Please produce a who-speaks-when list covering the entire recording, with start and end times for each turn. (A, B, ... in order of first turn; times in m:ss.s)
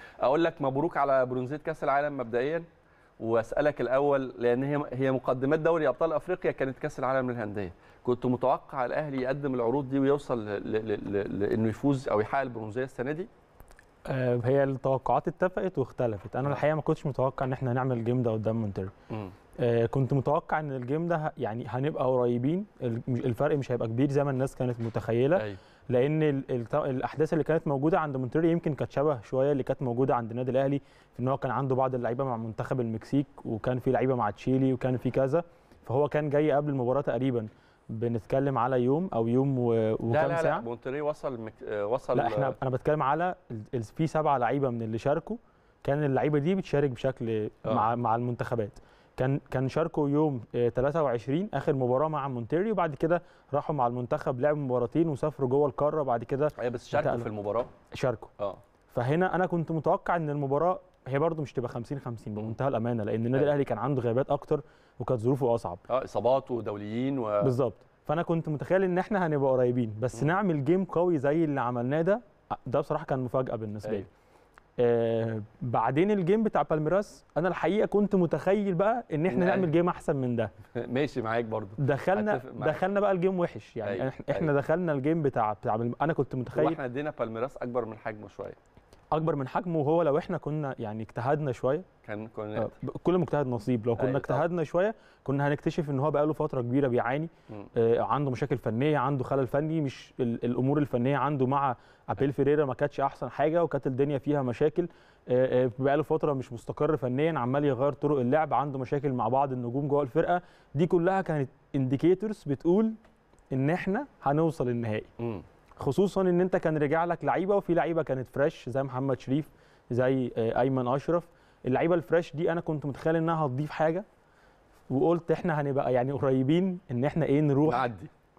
0:00.2-0:02.7 A
0:03.2-0:13.3 A
0:14.1-0:18.9 B
0:19.6-0:40.7 B
0:40.1-0:42.6 A
0:42.1-0:57.3 B
0:56.6-0:57.7 A
0:57.9-0:58.3 B
0:58.9-1:05.8 B
1:05.9-1:07.6 A
1:07.4-1:14.1 B
1:14.8-1:20.5 B
1:19.3-1:19.7 A
1:20.7-1:22.8 A
1:21.8-1:26.8 B
1:23.8-1:24.5 A
1:26.5-1:28.6 A
1:29.1-1:31.9 B
1:32.0-1:32.7 A
1:32.6-1:52.9 B
1:34.0-1:34.4 A
1:53.5-1:55.1 B
1:55.2-1:55.4 A
1:55.8-2:04.0 B
2:04.9-2:07.9 B
2:07.6-2:08.1 A